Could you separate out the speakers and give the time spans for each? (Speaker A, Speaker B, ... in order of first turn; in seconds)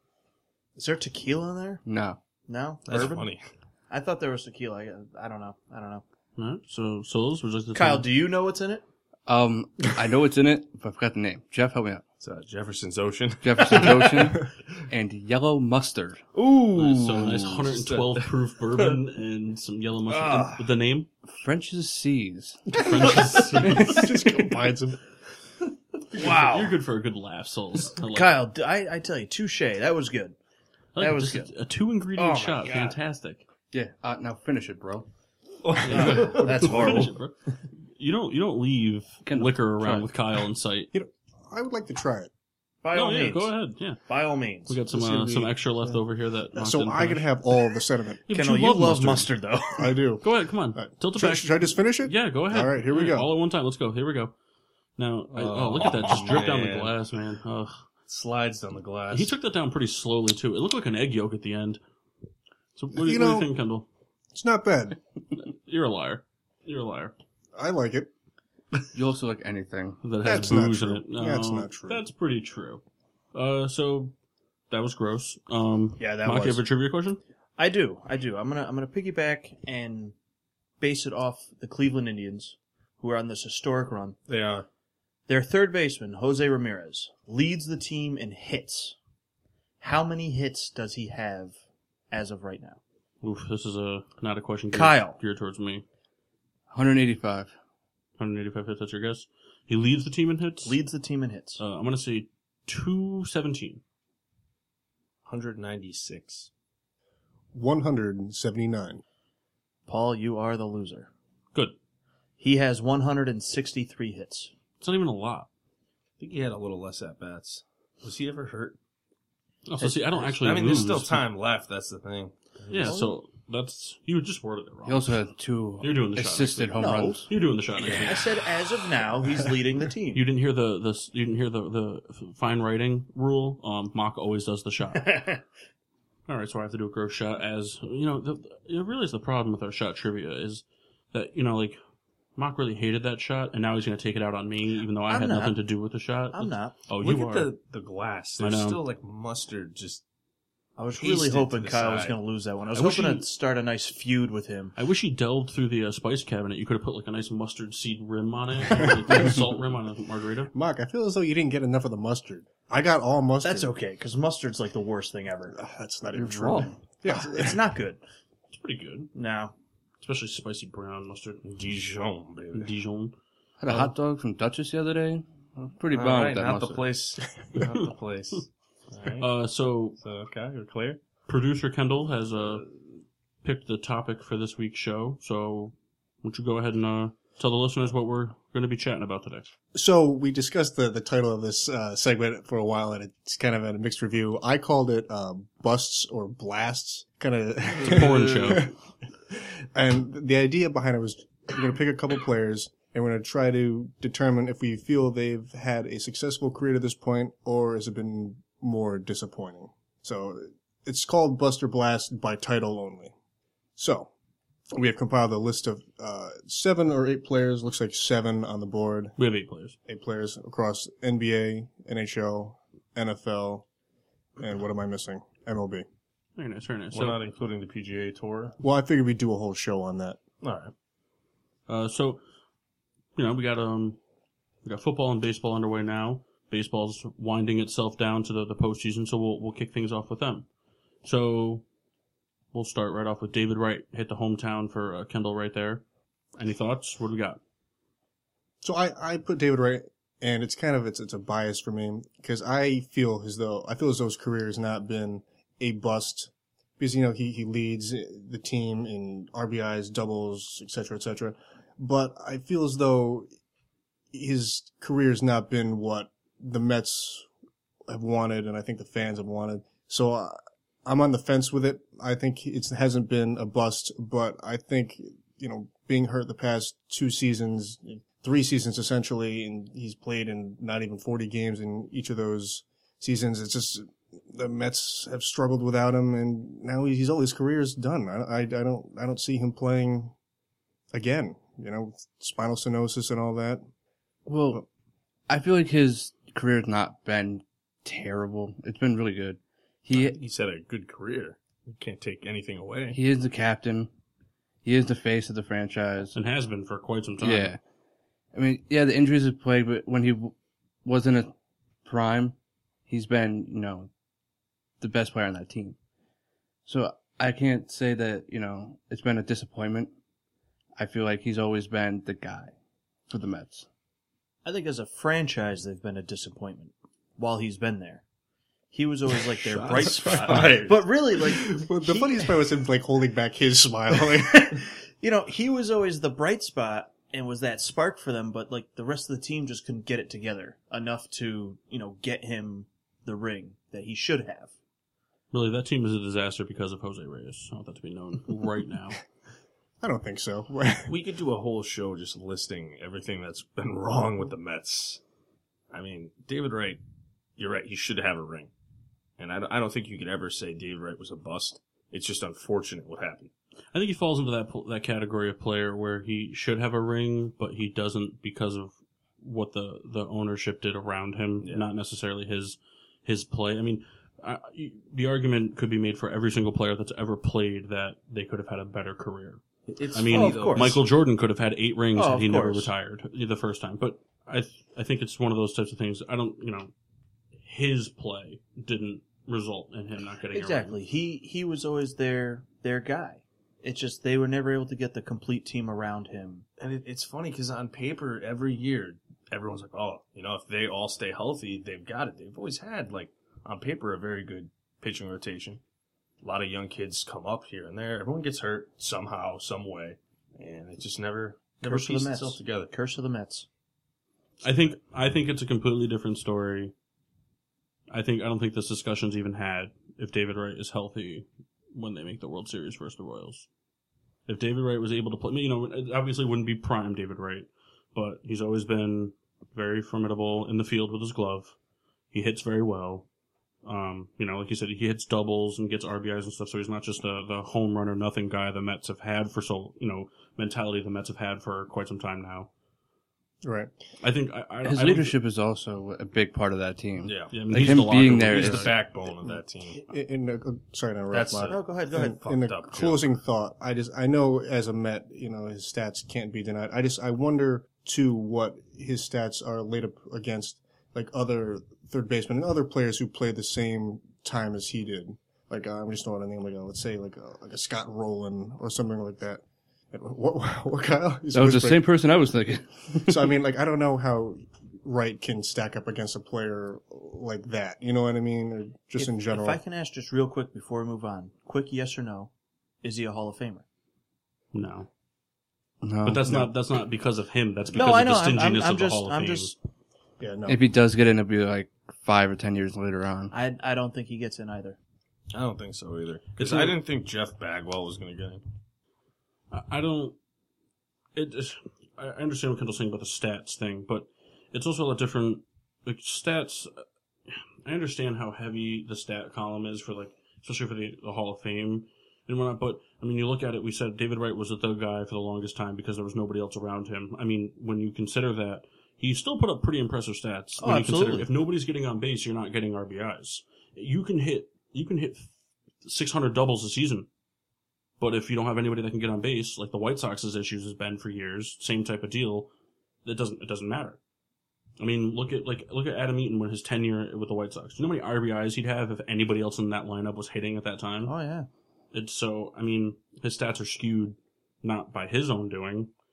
Speaker A: 0.8-1.9, 2.5-3.3, 3.9-6.0, 7.7-8.8, 16.4-17.7, 20.1-20.6, 26.2-26.8, 28.0-30.4, 31.0-31.5, 32.2-33.0, 35.8-37.1, 42.8-43.5, 44.1-45.4, 48.3-50.0, 76.0-76.7, 77.6-80.2, 80.8-84.2, 85.3-89.0, 89.8-91.5, 92.1-92.8, 94.7-95.2, 100.6-101.6, 109.9-111.1, 112.4-114.5, 122.8-123.2, 126.8-130.2, 135.0-135.4, 145.1-145.6, 146.3-146.8, 150.8-154.8, 163.4-165.6, 166.2-168.0, 169.1-169.5, 324.4-328.0, 328.7-332.5, 333.9-344.5, 380.1-380.8, 381.9-382.7, 390.3-396.5, 411.6-413.5, 451.5-452.2, 479.0-482.3, 482.8-483.6, 487.8-489.5, 493.3-494.8, 520.6-521.3, 541.1-541.5
Speaker B: 1.9-2.2, 9.3-12.0, 13.4-16.2, 21.3-22.8, 23.6-24.1, 33.7-35.1, 39.2-40.1, 68.9-70.0, 96.7-97.5, 124.9-127.3, 166.2-166.7, 173.6-176.9, 294.3-294.6, 295.3-300.2, 302.9-303.9, 304.6-306.2, 307.2-307.6, 308.3-311.3, 311.9-312.4, 312.9-313.9, 314.8-315.8, 316.7-319.9, 320.8-322.5, 323.1-323.7, 444.6-448.8, 471.3-473.3, 485.8-486.5, 490.5-493.3
Speaker C: 2.9-3.5, 12.2-14.4, 17.4-18.3, 35.6-37.0, 55.3-56.9, 58.1-59.3, 84.3-84.7, 105.2-106.5, 116.2-118.8, 119.8-123.0, 147.0-150.0, 151.0-152.2, 171.4-172.7, 175.9-179.3, 180.0-181.0, 226.9-228.6, 230.4-230.7, 299.9-303.0, 329.4-330.8, 350.9-355.0, 355.7-356.8, 357.4-358.5, 359.2-363.3, 371.4-371.7, 379.7-380.8, 396.6-405.6, 406.2-412.7, 447.0-449.9, 451.1-453.1, 495.3-498.4
Speaker D: 6.4-8.1, 16.7-21.1, 22.8-24.1, 26.1-28.4, 30.9-33.5, 35.8-40.9, 42.9-44.0, 44.7-47.5, 48.3-49.3, 50.2-54.4, 55.0-57.9, 59.1-61.8, 62.8-63.9, 65.4-67.2, 70.0-72.8, 73.3-74.2, 74.7-77.2, 93.2-95.8, 98.2-100.8, 101.6-103.8, 114.8-115.5, 119.7-121.3, 122.7-125.2, 125.8-128.3, 130.1-135.2, 136.3-141.8, 142.4-147.5, 148.4-148.8, 152.7-153.3, 154.8-160.5, 168.5-169.1, 170.0-171.4, 172.5-173.2, 177.6-177.9, 179.2-180.0, 181.3-182.7, 183.4-189.5, 197.8-198.7, 219.2-219.8, 226.4-227.2, 231.7-232.2, 233.2-234.0, 234.7-240.5, 241.0-241.7, 242.5-245.8, 246.4-247.4, 306.1-307.5, 345.3-349.0, 363.7-379.4, 379.9-386.7, 387.4-390.8, 414.4-416.7, 417.9-423.5, 424.3-431.6, 432.1-433.1, 433.6-442.5, 444.0-445.2, 447.3-448.8, 484.5-484.9, 486.0-489.5, 496.4-496.8, 499.5-500.2, 501.1-525.3, 525.8-527.1, 528.0-532.5, 533.0-534.0, 534.8-541.1, 541.9-545.9
Speaker E: 23.1-25.0, 40.9-42.3, 46.6-48.2, 49.8-53.3, 62.9-63.5, 64.3-65.0, 67.5-68.1, 70.2-72.0, 107.5-109.0, 160.5-163.7, 165.5-167.6, 189.7-198.8, 199.3-213.1, 213.8-214.1, 214.7-219.1, 219.9-223.7, 224.4-225.9, 228.6-230.2, 248.6-263.3, 264.1-267.3, 267.9-290.1, 290.9-293.6, 331.3-334.6, 349.8-350.9, 443.4-443.7, 449.9-471.9, 473.0-479.6, 490.2-490.6